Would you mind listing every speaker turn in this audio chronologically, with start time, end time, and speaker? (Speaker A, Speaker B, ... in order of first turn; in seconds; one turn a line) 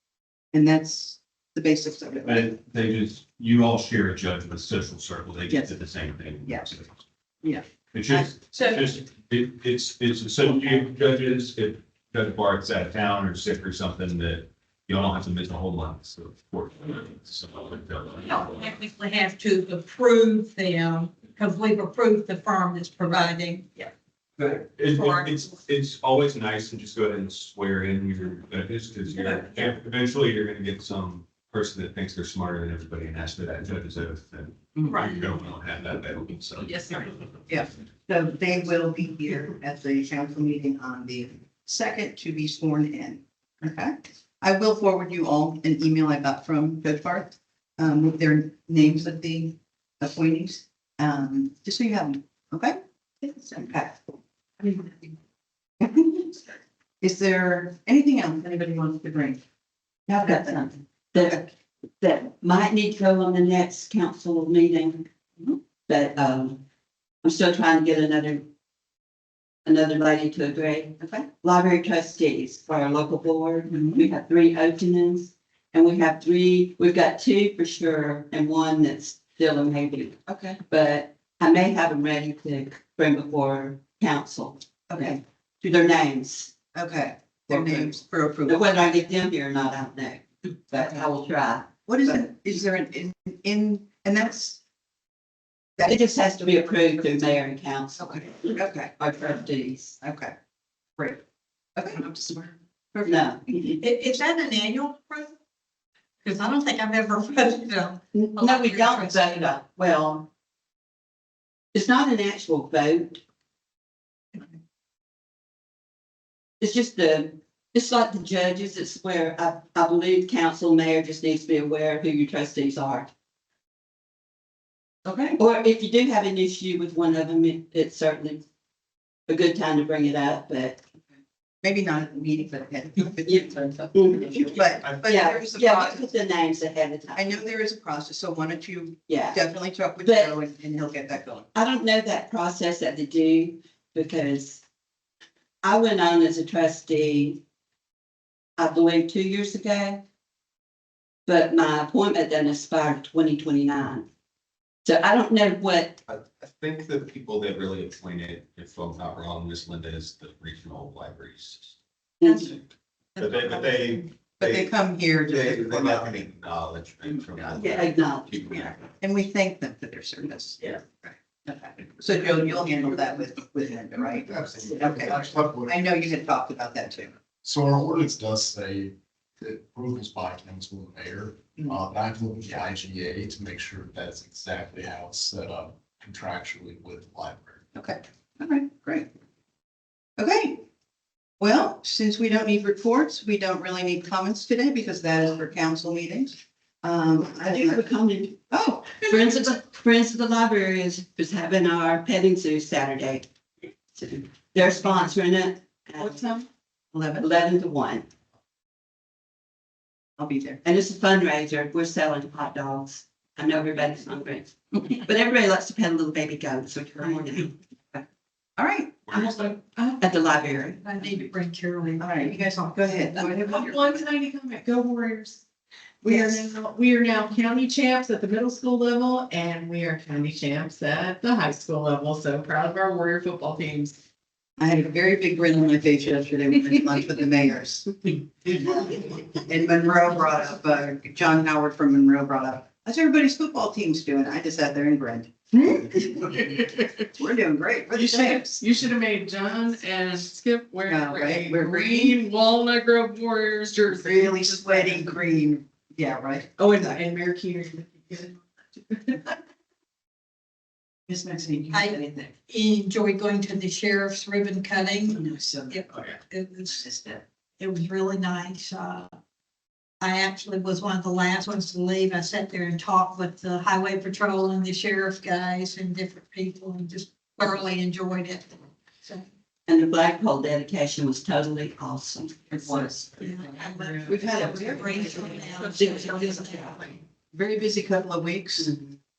Speaker A: 0.5-2.5
Speaker B: 2.2-6.9
Speaker A: 5.5-5.7
Speaker A: 6.4-6.7
Speaker A: 7.4-8.8
Speaker B: 7.9-18.4
Speaker C: 18.2-23.9
Speaker B: 24.6-37.1
Speaker C: 25.0-25.3
Speaker A: 37.5-54.0
Speaker A: 54.6-55.1
Speaker A: 55.8-56.4
Speaker A: 57.0-59.4
Speaker D: 60.1-61.5
Speaker A: 60.2-61.4
Speaker D: 62.0-65.1
Speaker D: 65.9-66.6
Speaker D: 67.2-68.5
Speaker D: 69.7-86.5
Speaker A: 71.0-71.3
Speaker A: 73.7-74.1
Speaker A: 84.9-85.2
Speaker A: 86.7-88.7
Speaker D: 87.5-92.3
Speaker A: 90.7-91.0
Speaker A: 91.8-94.6
Speaker D: 95.8-100.0
Speaker A: 98.0-99.0
Speaker A: 100.0-100.3
Speaker A: 101.8-103.8
Speaker D: 103.0-103.8
Speaker C: 103.8-105.3
Speaker C: 106.2-109.2
Speaker D: 108.1-110.3
Speaker D: 111.7-113.2
Speaker D: 116.6-123.1
Speaker A: 125.0-125.4
Speaker D: 125.4-128.4
Speaker D: 129.3-130.8
Speaker A: 131.6-136.2
Speaker D: 133.2-137.4
Speaker A: 137.1-141.5
Speaker D: 139.1-139.4
Speaker D: 140.0-140.4
Speaker D: 141.5-144.6
Speaker D: 145.6-147.4
Speaker D: 148.6-150.0
Speaker D: 151.2-154.1
Speaker D: 154.8-156.0
Speaker B: 156.1-161.8
Speaker D: 162.2-162.5
Speaker B: 162.3-162.6
Speaker B: 163.2-168.7
Speaker A: 164.4-166.3
Speaker D: 167.5-168.4
Speaker A: 168.5-177.1
Speaker E: 174.0-175.8
Speaker E: 177.4-187.6
Speaker A: 187.7-189.1
Speaker A: 190.2-190.6
Speaker A: 191.4-197.9
Speaker D: 197.4-198.4
Speaker A: 198.5-199.6
Speaker D: 199.0-203.3
Speaker D: 203.9-206.2
Speaker A: 206.0-207.3
Speaker D: 207.2-208.1
Speaker A: 210.2-210.6
Speaker D: 210.6-218.0
Speaker A: 218.6-219.0
Speaker B: 219.1-219.4
Speaker D: 219.1-220.9
Speaker C: 220.8-223.1
Speaker A: 222.0-224.0
Speaker F: 223.2-225.4
Speaker F: 226.0-234.0
Speaker A: 226.1-226.5
Speaker A: 234.6-248.6
Speaker F: 246.7-247.0
Speaker F: 247.9-255.0
Speaker A: 250.8-252.2
Speaker A: 253.9-257.0
Speaker F: 256.6-259.2
Speaker A: 261.1-262.3
Speaker C: 261.7-266.8
Speaker A: 265.1-266.1
Speaker A: 266.6-267.2
Speaker C: 267.6-269.1
Speaker C: 270.0-279.2
Speaker D: 279.7-282.8
Speaker A: 282.5-285.5
Speaker C: 283.2-286.6
Speaker D: 284.1-286.8
Speaker A: 287.3-288.8